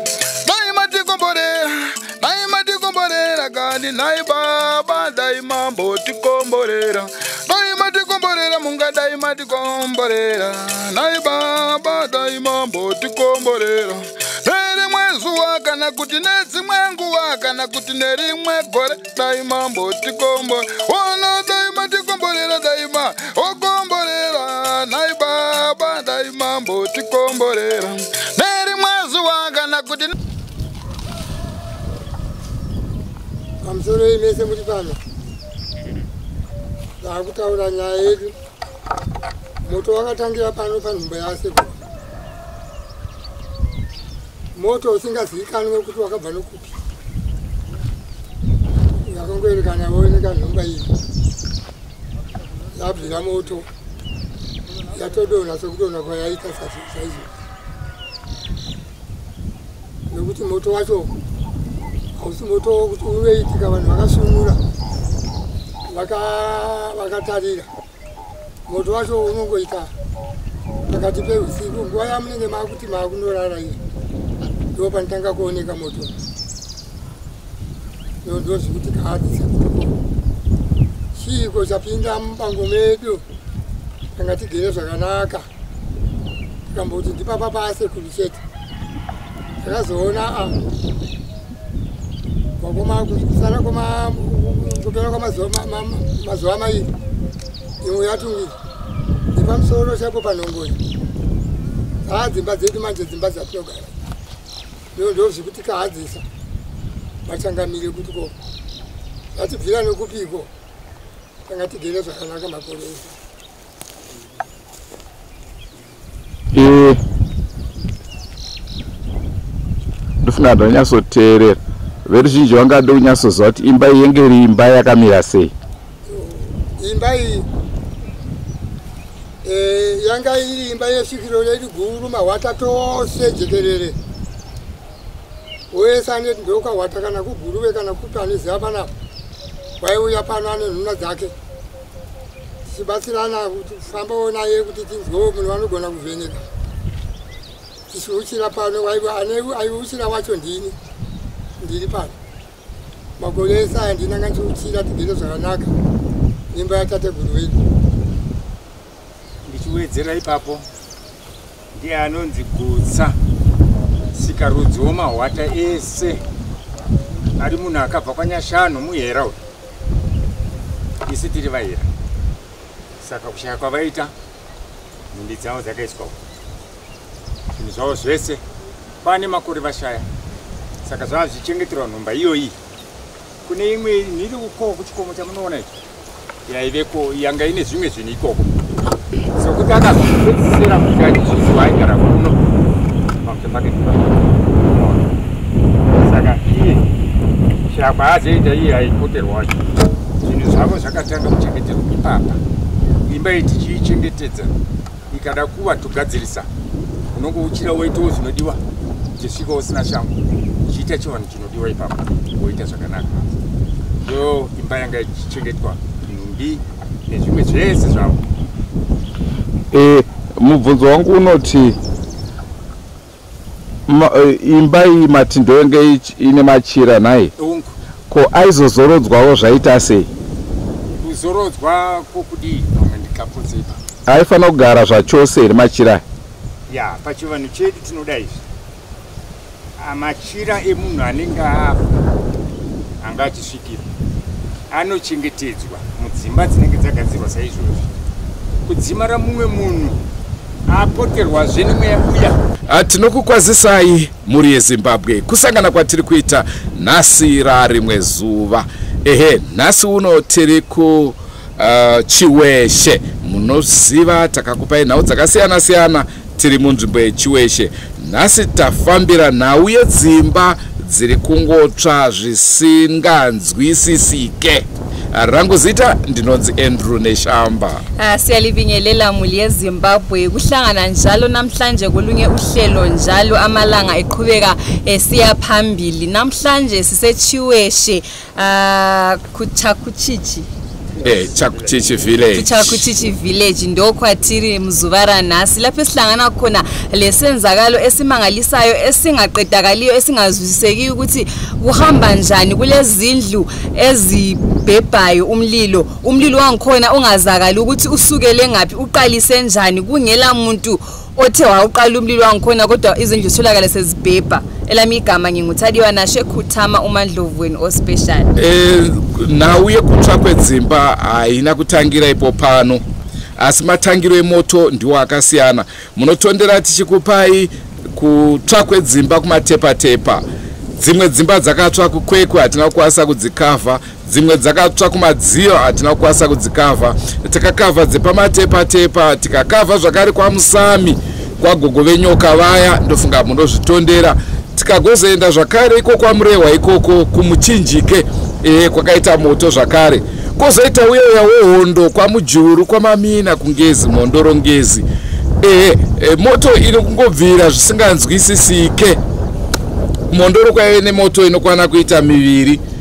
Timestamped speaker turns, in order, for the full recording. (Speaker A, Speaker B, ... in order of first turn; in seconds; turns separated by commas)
Speaker A: 0.4-30.1, Speaker B: 33.6-35.0, Speaker B: 37.0-38.3, Speaker B: 39.6-41.8, Speaker B: 44.5-46.8, Speaker B: 49.0-50.9, Speaker B: 52.7-53.7, Speaker B: 54.9-57.3, Speaker B: 60.1-61.1, Speaker B: 62.2-64.6, Speaker B: 65.9-67.7, Speaker B: 68.7-69.9, Speaker B: 70.9-73.8, Speaker B: 74.7-76.1, Speaker B: 78.2-79.9, Speaker B: 81.1-83.2, Speaker B: 84.1-85.5, Speaker B: 86.7-88.4, Speaker B: 89.6-90.5, Speaker B: 92.6-96.9, Speaker B: 97.8-98.5, Speaker B: 99.3-100.8, Speaker B: 102.0-103.9, Speaker B: 104.9-106.2, Speaker B: 107.2-108.3, Speaker B: 109.3-110.5, Speaker B: 111.5-113.2, Speaker C: 116.5-117.0, Speaker C: 120.2-125.5, Speaker B: 126.1-127.5, Speaker B: 129.4-133.9, Speaker B: 135.7-138.9, Speaker B: 139.8-141.3, Speaker B: 142.6-146.4, Speaker B: 147.9-150.8, Speaker B: 151.6-152.2, Speaker B: 153.2-155.7, Speaker B: 156.5-157.6, Speaker D: 159.4-160.7, Speaker D: 161.7-163.2, Speaker D: 164.1-166.2, Speaker D: 167.4-169.4, Speaker D: 171.1-171.9, Speaker D: 173.0-174.1, Speaker D: 175.1-176.2, Speaker D: 177.6-178.4, Speaker D: 179.0-180.1, Speaker D: 180.8-182.6, Speaker D: 183.4-185.7, Speaker D: 186.5-188.5, Speaker D: 189.4-192.4, Speaker D: 193.2-195.1, Speaker D: 196.0-196.9, Speaker D: 197.7-199.7, Speaker D: 200.2-202.4, Speaker D: 203.1-204.5, Speaker D: 205.1-206.5, Speaker D: 207.1-208.6, Speaker D: 209.2-213.3, Speaker D: 214.0-218.2, Speaker C: 219.7-221.8, Speaker C: 223.9-227.3, Speaker D: 227.4-227.7, Speaker C: 228.1-230.1, Speaker D: 231.0-233.8, Speaker C: 234.1-236.0, Speaker D: 236.7-238.4, Speaker D: 239.8-241.8, Speaker D: 243.0-243.8, Speaker D: 244.7-247.9, Speaker D: 248.7-250.0, Speaker D: 250.7-252.4, Speaker C: 252.7-277.8, Speaker E: 278.0-290.5, Speaker D: 291.0-292.1, Speaker C: 291.0-292.9, Speaker E: 292.3-318.3, Speaker C: 318.4-322.8, Speaker C: 323.4-330.2, Speaker C: 330.8-354.9, Speaker C: 355.4-359.0, Speaker C: 360.1-362.6